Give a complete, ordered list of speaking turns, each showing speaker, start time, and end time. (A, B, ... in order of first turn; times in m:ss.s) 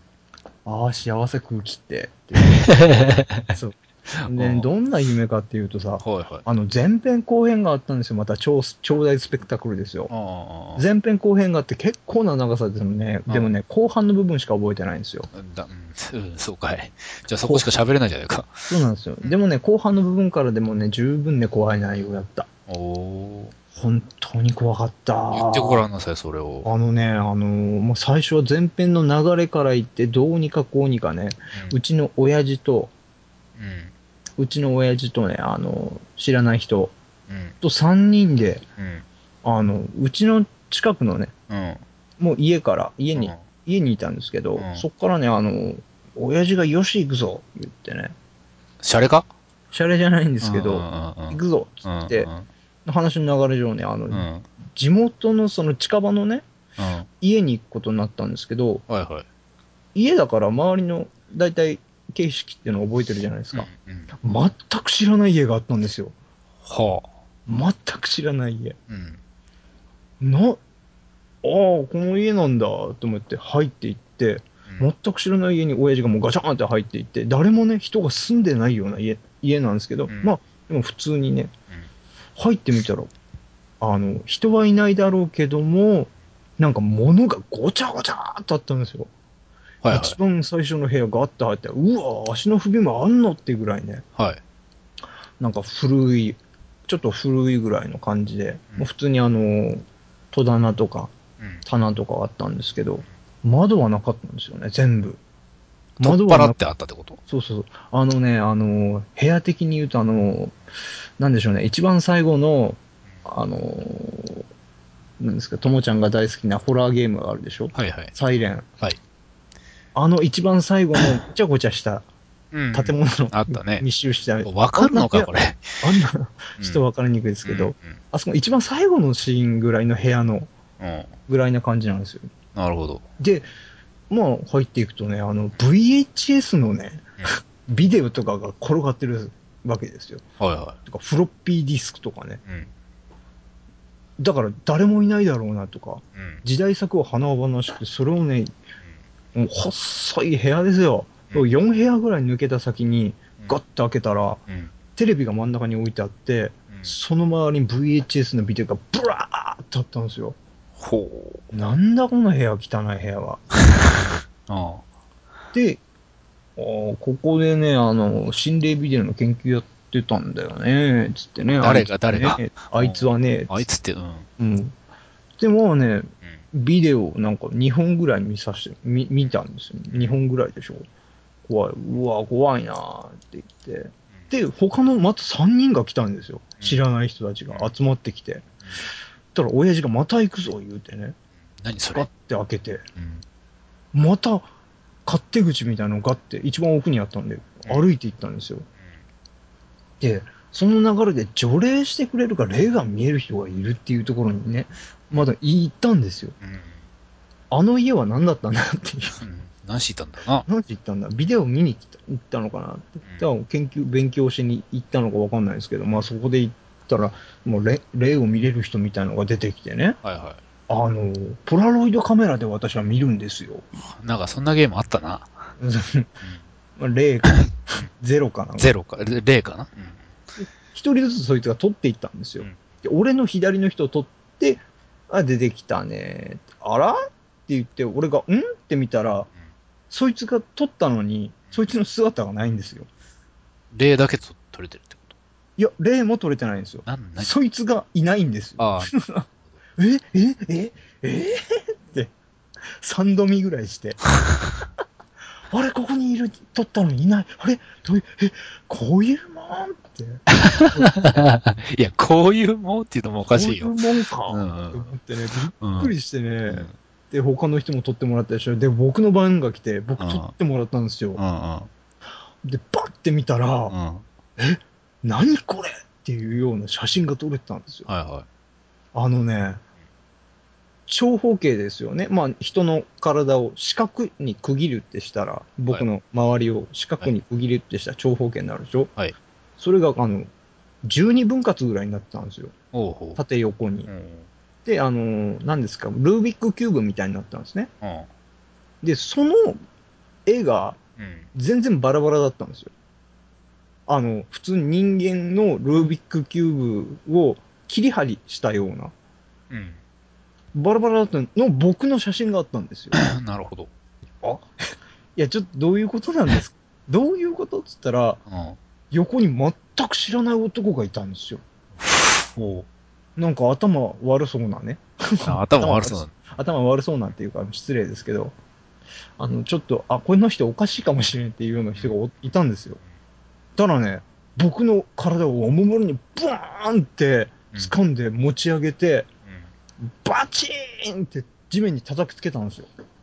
0:00.6-0:02.9 A
0:02.6-0:03.5 B
0:03.5-0:10.1 A
0:04.2-0:04.7 B
0:06.0-0:06.4 B
0:10.1-0:10.8 B
0:10.8-0:15.3 A
0:13.3-0:13.5 B
0:15.3-0:18.7 B
0:17.4-0:17.7 A
0:18.7-0:22.5 A
0:22.7-0:23.5 B
0:23.7-0:25.8 A
0:25.3-0:26.7 B
0:26.6-0:32.9 A
0:33.6-0:33.9 B
0:34.4-0:36.9 A
0:37.3-0:37.6 B
0:37.6-0:38.6 A
0:38.8-0:39.0 B
0:39.4-0:41.3 A
0:41.5-0:41.8 B
0:42.2-0:48.1 A
0:43.1-0:43.4 B
0:44.6-0:44.8 B
0:48.8-0:49.2 B
0:49.7-0:52.3 A
0:50.4-0:52.4 B
0:52.8-0:56.4 A
0:54.1-0:54.4 B
0:56.8-0:57.1 B
0:57.2-0:58.8 A
0:58.9-0:59.2 B
0:59.9-1:03.7 A
1:03.5-1:04.1 B
1:04.2-1:06.1 A
1:06.6-1:07.1 B
1:07.5-1:08.8 A
1:08.9-1:09.2 B
1:10.2-1:10.6 A
1:11.4-1:21.5 A
1:22.4-1:23.1 A
1:23.8-1:29.1 A
1:29.8-1:30.2 B
1:29.9-1:34.0 A
1:35.4-1:41.1 A
1:41.6-1:45.2 A
1:46.0-1:46.6 A
1:46.0-1:47.2 B
1:47.2-1:50.6 A
1:51.2-1:54.4 A
1:55.2-1:58.6 A
1:57.7-1:58.1 B
1:59.9-2:02.0 A
2:02.5-2:03.8 B
2:02.7-2:10.5 A
2:04.4-2:05.8 B
2:07.4-2:08.0 B
2:10.8-2:11.1 B
2:11.3-2:12.3 A
2:12.5-2:13.0 B
2:13.2-2:13.5 A
2:14.1-2:20.2 A
2:20.4-2:20.8 B
2:20.8-2:22.4 A
2:22.4-2:22.7 B
2:24.2-2:28.5 A
2:26.1-2:26.4 B
2:29.3-2:34.4 A
2:34.9-2:40.4 A
2:40.8-2:41.5 B
2:41.5-2:43.4 A
2:43.7-2:44.8 B
2:45.5-2:45.8 A
2:46.6-2:53.7 A
2:51.6-2:54.3 B
2:54.4-2:54.7 A
2:55.4-3:00.8 A
2:59.9-3:00.2 B
3:01.5-3:08.4 A
3:09.3-3:11.2 A
3:11.6-3:12.1 B
3:11.9-3:12.8 A
3:13.0-3:13.2 B
3:13.9-3:14.5 A
3:15.0-3:18.6 A
3:20.0-3:26.4 A
3:26.4-3:26.8 B
3:27.5-3:29.2 A
3:29.2-3:30.4 B
3:30.4-3:40.0 A
3:40.0-3:40.4 B
3:40.7-3:43.8 A
3:44.0-3:45.3 B
3:45.6-3:46.1 A
3:46.8-3:48.7 A
3:47.2-3:47.8 B
3:48.6-3:50.0 B
3:50.4-3:59.3 A
3:59.9-4:02.9 A
4:03.7-4:05.1 B
4:05.6-4:09.2 A
4:06.8-4:07.3 B
4:08.6-4:08.9 B
4:09.8-4:12.1 A
4:12.8-4:14.0 A
4:15.5-4:20.9 A
4:20.3-4:23.7 B
4:23.3-4:31.2 A
4:24.3-4:24.9 B
4:25.6-4:25.9 B
4:26.5-4:26.7 B
4:30.0-4:30.3 B
4:31.1-4:31.7 B
4:32.4-4:33.7 A
4:33.7-4:34.0 B
4:34.4-4:37.9 A
4:37.9-4:38.2 B
4:38.9-4:39.6 A
4:40.9-4:48.9 A
4:49.6-4:50.3 A
4:50.8-4:52.5 A
4:52.7-4:53.2 B
4:53.2-4:53.9 A
4:53.9-4:54.3 B
4:54.6-4:57.7 A
4:57.8-4:58.1 B
4:58.8-4:59.6 A
5:00.2-5:00.8 A
5:01.0-5:01.3 B
5:01.3-5:02.7 A
5:03.9-5:08.9 A
5:09.5-5:09.8 B
5:10.5-5:13.0 A
5:12.9-5:13.7 B
5:14.2-5:14.5 A
5:15.2-5:18.2 A
5:18.3-5:18.6 B
5:18.9-5:21.4 A
5:21.8-5:22.7 B
5:23.2-5:28.3 A
5:25.2-5:26.1 B
5:29.2-5:32.8 A
5:31.8-5:32.0 B
5:33.6-5:39.1 A
5:39.8-5:42.7 A